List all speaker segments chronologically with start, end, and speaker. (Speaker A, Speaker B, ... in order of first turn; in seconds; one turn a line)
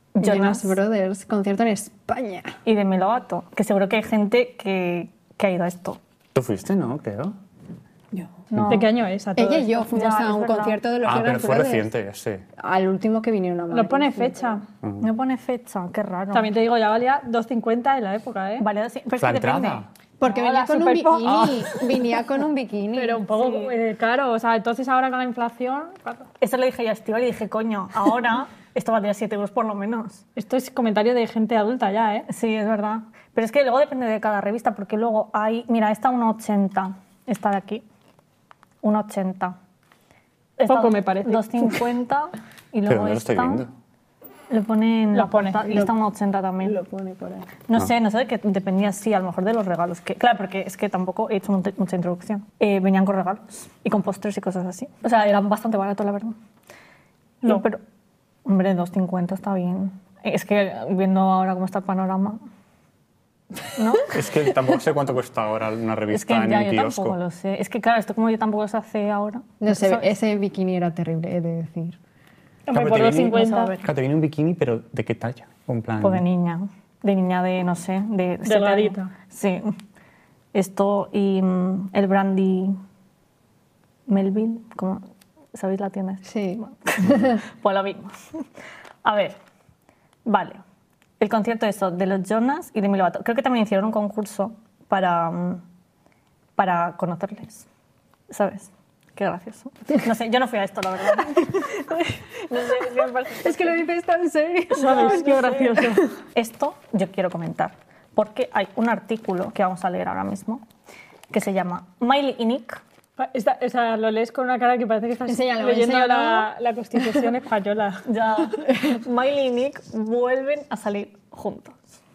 Speaker A: 0.1-0.8
Speaker B: 0.2-2.5
Speaker A: 2.6-6.0
Speaker C: 6.3-7.3
Speaker A: 8.5-8.8
Speaker C: 8.5-8.8
Speaker D: 8.7-9.9
Speaker B: 9.3-11.9
Speaker A: 9.9-10.8
Speaker C: 11.0-12.4
Speaker B: 12.6-14.6
Speaker D: 13.7-14.6
Speaker A: 15.0-16.5
Speaker D: 16.3-18.6
Speaker A: 18.6-19.8
Speaker C: 19.2-19.9
Speaker B: 20.2-23.2
Speaker D: 20.4-21.8
Speaker D: 22.9-26.3
Speaker A: 23.3-23.7
Speaker A: 26.4-30.2
Speaker D: 30.4-32.3
Speaker A: 32.3-37.8
Speaker A: 38.8-39.5
Speaker A: 40.6-43.6
Speaker D: 40.7-41.8
Speaker C: 42.9-43.7
Speaker A: 44.5-46.8
Speaker D: 45.1-45.8
Speaker B: 46.6-47.5
Speaker A: 47.7-56.4
Speaker A: 57.4-57.8
Speaker A: 58.4-62.4
Speaker A: 63.7-64.1
Speaker C: 64.1-67.2
Speaker A: 66.1-70.1
Speaker B: 69.6-72.0
Speaker D: 72.7-73.8
Speaker C: 72.7-76.2
Speaker A: 73.2-73.9
Speaker A: 76.0-79.7
Speaker D: 78.5-79.1
Speaker A: 80.5-82.8
Speaker A: 84.1-85.0
Speaker A: 85.5-88.4
Speaker B: 86.2-87.4
Speaker A: 89.0-89.4
Speaker A: 90.2-90.6
Speaker A: 91.2-95.6
Speaker A: 96.5-97.7
Speaker A: 98.3-103.8
Speaker B: 103.3-105.3
Speaker A: 104.7-110.6
Speaker D: 104.8-106.1
Speaker A: 111.3-112.8
Speaker D: 113.2-118.0
Speaker B: 115.3-116.5
Speaker A: 118.0-121.8